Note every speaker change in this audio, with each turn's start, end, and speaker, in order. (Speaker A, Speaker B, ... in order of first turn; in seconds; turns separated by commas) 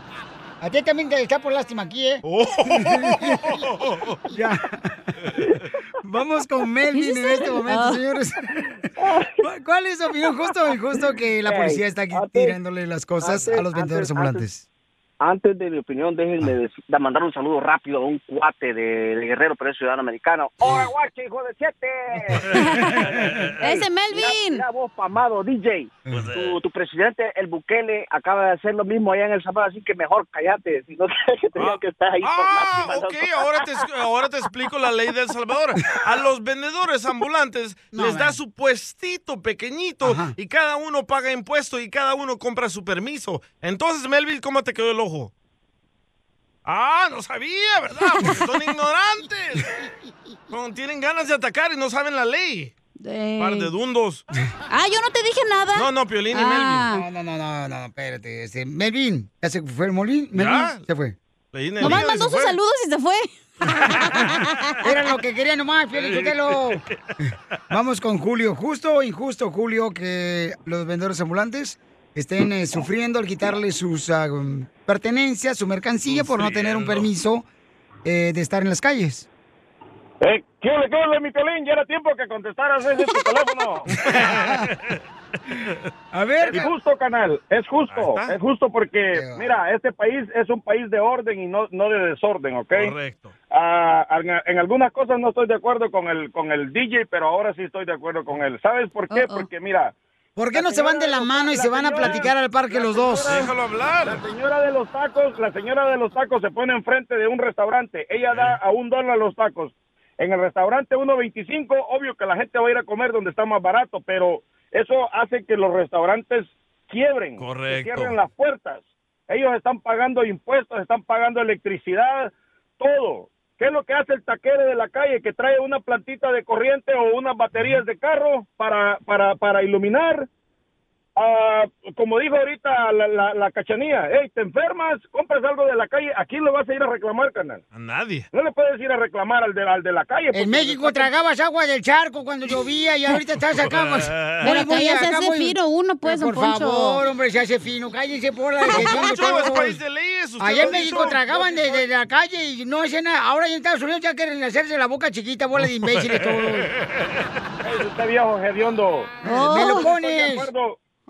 Speaker A: 0.6-2.2, Speaker B: 2.2-4.2, Speaker A: 2.8-3.3, Speaker A: 4.3-4.9, Speaker A: 6.0-8.4, Speaker C: 6.9-8.0, Speaker D: 9.0-9.3, Speaker A: 9.4-14.6, Speaker D: 11.4-12.6, Speaker D: 13.2-14.4, Speaker D: 15.2-22.5, Speaker B: 22.3-23.6, Speaker C: 22.6-23.1, Speaker C: 23.6-24.6, Speaker D: 24.1-33.7, Speaker B: 26.1-26.6, Speaker B: 31.6-45.3, Speaker A: 37.9-38.4, Speaker A: 40.0-40.3, Speaker B: 46.6-49.7, Speaker B: 50.5-52.7, Speaker C: 53.0-53.7, Speaker B: 53.4-54.3, Speaker C: 54.7-57.1, Speaker B: 55.7-56.9, Speaker A: 56.9-61.1, Speaker B: 60.3-60.8, Speaker B: 61.5-62.5, Speaker C: 61.8-64.8, Speaker B: 63.7-64.4, Speaker A: 64.8-77.5, Speaker B: 65.9-67.1, Speaker B: 76.1-77.1, Speaker A: 78.0-79.3, Speaker E: 80.2-84.0, Speaker B: 84.0-85.0, Speaker A: 84.0-84.7, Speaker A: 86.1-86.7, Speaker E: 86.4-92.9, Speaker B: 87.9-88.4, Speaker A: 89.1-89.6, Speaker B: 92.7-93.3, Speaker E: 93.5-99.9, Speaker C: 99.1-99.5, Speaker A: 100.4-103.4, Speaker E: 100.5-103.5, Speaker B: 103.3-104.2, Speaker E: 104.0-130.3, Speaker B: 108.3-108.6, Speaker B: 117.4-118.2, Speaker B: 127.5-127.8, Speaker E: 131.2-137.6, Speaker B: 137.7-138.3, Speaker E: 138.3-141.1, Speaker A: 140.3-149.8, Speaker B: 143.6-144.5, Speaker C: 144.4-147.0, Speaker C: 148.7-149.0, Speaker B: 148.7-151.5, Speaker A: 150.4-156.7, Speaker E: 151.4-151.6, Speaker B: 155.6-157.1, Speaker E: 157.6-159.2, Speaker A: 159.2-160.5, Speaker C: 159.3-159.9, Speaker E: 159.9-160.8